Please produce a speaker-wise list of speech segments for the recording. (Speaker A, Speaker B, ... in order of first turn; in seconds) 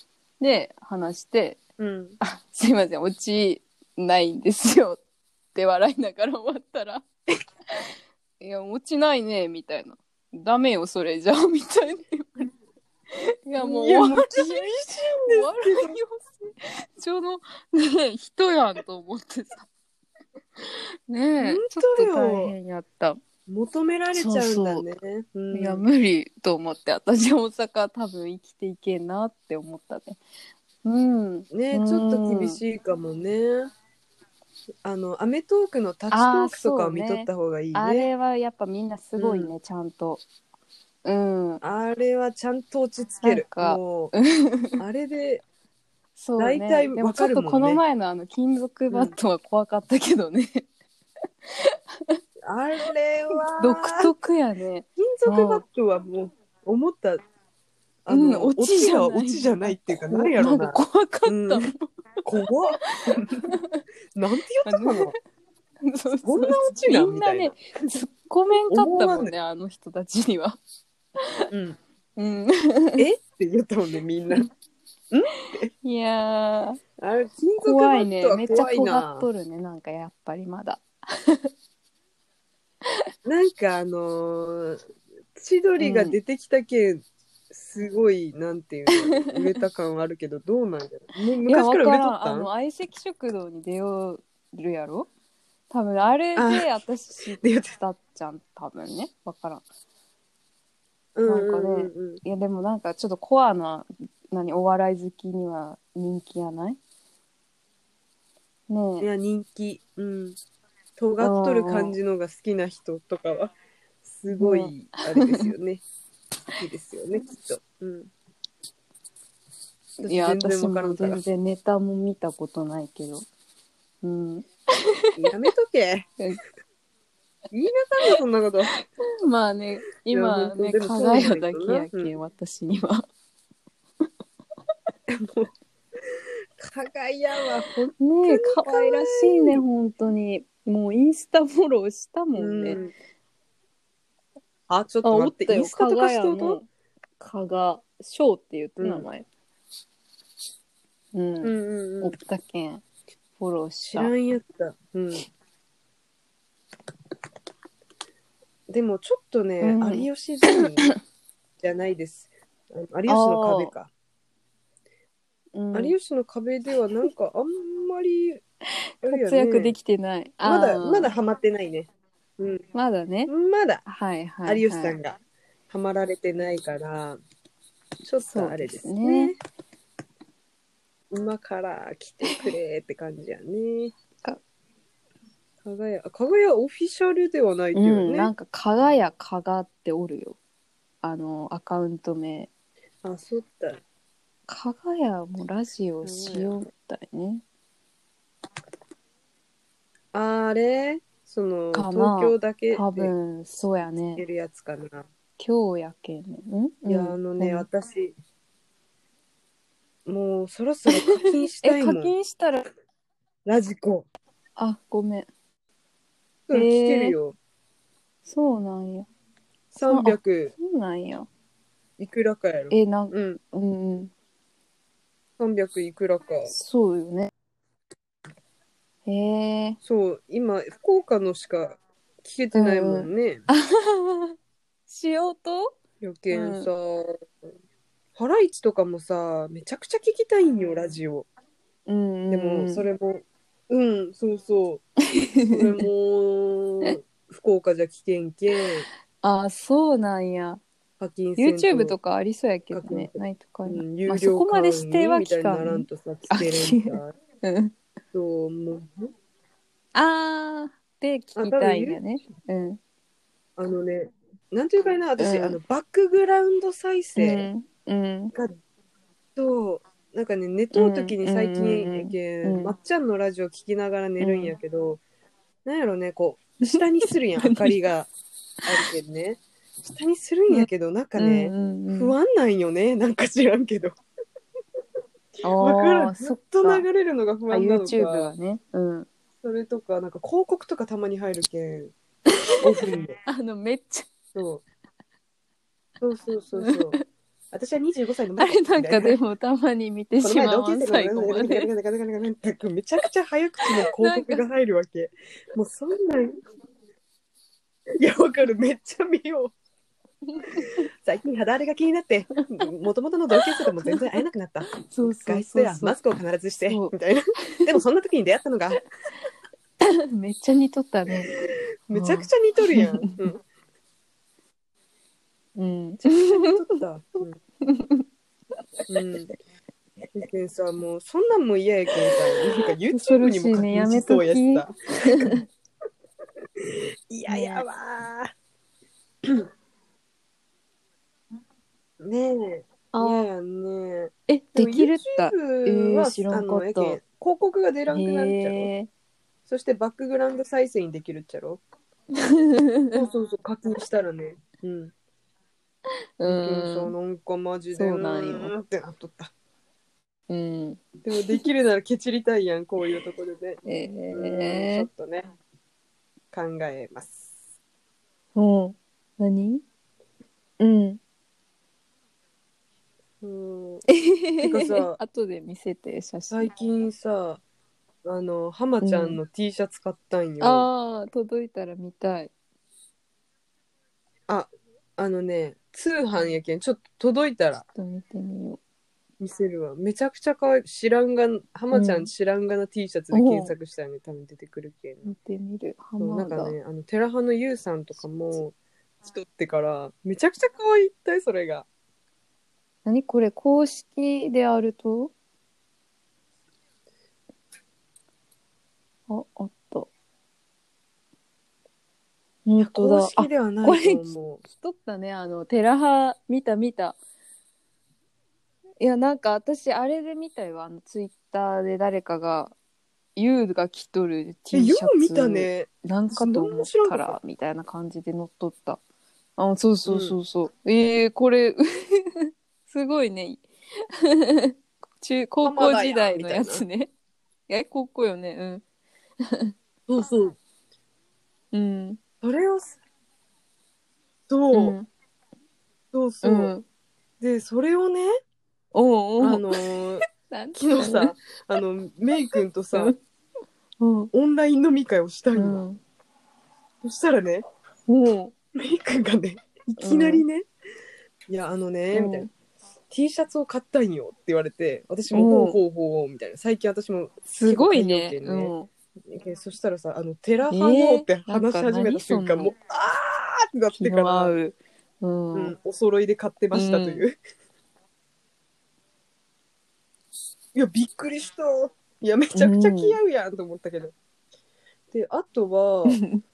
Speaker A: 0.4-1.6, 2.2-5.0, 5.5-7.1, 8.4-12.5, 13.1-19.7, 20.6-23.2, 24.1-24.9, 25.5-30.2, 30.8-32.6, 36.1-40.2, 41.0-41.6, 43.2-44.8, 46.2-50.7, 51.5-52.2, 53.5-55.6, 58.1-61.9, 62.8-63.8, 64.7-65.1, 65.8-70.6, 71.2-71.5, 72.2-73.0, 75.8-76.8, 77.6-81.5, 85.8-86.2, 91.5-95.1, 95.7-99.7, 101.3-106.8, 108.7-109.1, 111.2-112.0, 114.4-115.4, 120.0-123.2, 124.0-125.3, 128.8-133.1, 138.0-142.8, 145.0-146.7, 147.2-149.3, 151.1-152.8, 153.4-154.1, 159.6-160.1, 160.6-160.9, 163.1-163.7, 165.5-165.9, 169.0-171.1, 172.7-173.3, 173.9-175.0, 178.3-179.3, 187.7-190.4, 191.0-192.5, 194.5-197.4, 201.7-204.2, 205.4-207.7, 211.6-212.7, 214.6-215.3, 216.5-217.2, 218.2-219.1, 219.8-221.3, 222.7-224.1, 226.5-227.3, 229.1-229.8, 232.5-234.3, 234.9-235.8, 236.3-236.7, 241.9-242.8, 245.1-245.7, 249.2-250.6, 251.4-257.8, 259.9-262.8, 265.2-265.6, 267.2-268.3, 270.7-272.7, 274.2-274.6, 277.4-277.8, 280.5-282.2, 285.4-286.9, 287.5-289.1, 292.3-292.6, 293.3-294.1, 296.6-297.0, 298.4-301.7, 303.9-304.4, 310.4-310.8, 313.6-314.0, 314.9-316.0, 316.7-316.9, 317.5-317.8, 319.8-321.3, 321.9-323.1, 325.6-326.6, 327.6-328.0, 332.9-335.4, 337.3-337.7, 342.9-343.3, 344.3-347.0, 347.9-348.9, 352.1-353.0, 356.2-356.9, 357.7-358.5, 360.3-361.4, 363.6-364.9, 368.4-369.6, 370.6-371.0, 373.9-376.5, 378.8-379.2, 380.4-382.3, 387.8-388.6, 391.7-392.1, 393.1-393.5, 395.1-396.6, 402.9-405.1, 409.1-409.9, 412.5-417.0, 418.8-422.6, 423.2-428.8, 429.4-433.4, 434.0-436.9, 437.5-438.6, 439.2-439.5, 441.5-442.0, 444.5-444.9, 446.2-446.6, 448.7-449.6, 450.1-451.1, 453.8-454.1, 455.4-455.8, 457.9-458.3, 459.8-460.2, 461.9-462.3, 465.1-465.6, 467.3-468.7, 470.5-472.5, 473.8-475.6, 476.5-477.1, 482.4-483.0, 485.9-486.2
Speaker B: 1.8-2.2, 13.6-16.0, 21.4-22.5, 23.5-25.9, 31.5-33.7, 34.8-38.1, 39.2-39.5, 41.6-44.1, 44.8-45.4, 46.4-47.8, 52.5-54.1, 55.0-57.2, 58.0-61.7, 62.2-63.5, 64.2-65.2, 66.2-67.6, 68.7-69.3, 71.5-71.8, 73.0-74.5, 75.1-75.7, 77.0-79.3, 83.2-84.8, 85.3-92.5, 96.4-96.7, 97.4-97.8, 101.2-102.2, 109.0-110.4, 111.0-113.5, 114.0-115.8, 116.6-118.1, 120.0-121.2, 125.2-126.1, 127.5-128.8, 130.1-132.2, 135.1-135.5, 136.1-139.6, 142.4-142.9, 144.7-146.6, 148.8-149.1, 151.4-152.2, 153.9-155.3, 158.7-161.0, 161.6-163.9, 165.7-168.4, 169.0-169.8, 170.4-172.7, 173.3-173.8, 174.4-175.2, 175.7-177.2, 178.0-179.4, 181.1-183.9, 185.6-188.3, 193.0-193.8, 196.0-196.6, 200.1-203.1, 204.2-205.1, 206.9-208.2, 210.1-212.1, 213.5-214.1, 216.5-217.4, 219.7-220.5, 222.0-223.4, 225.4-226.5, 229.8-233.4, 236.0-237.3, 238.2-241.3, 242.3-244.8, 245.5-248.9, 251.0-252.0, 252.7-257.1, 258.1-259.1, 261.4-262.0, 263.6-267.5, 269.4-275.0, 275.6-278.1, 278.6-284.0, 285.6-288.3, 289.4-291.9, 292.6-293.2, 294.4-294.6, 296.0-297.0, 297.5-299.2, 300.2-306.4, 308.0-309.5, 310.6-318.9, 321.3-323.4, 326.0-327.4, 328.9-329.3, 330.1-335.4, 336.6-338.3, 342.0-348.7, 349.5-351.6, 352.9-354.9, 356.2-359.3, 361.0-365.3, 366.3-367.3, 373.2-373.8, 374.4-375.0, 376.3-377.4, 378.1-380.7, 384.3-387.7, 389.2-395.1, 396.0-401.7, 412.6-414.4, 424.5-427.2, 429.9-430.2, 435.4-436.6, 439.9-440.4, 442.2-442.8, 444.3-444.8, 445.9-446.6, 447.2-448.1, 449.2-452.9, 454.1-455.6, 456.8-457.4, 458.5-460.5, 461.3-462.3, 462.9-468.5, 469.1-474.4, 475.4-477.2, 480.6-483.9, 484.9-486.0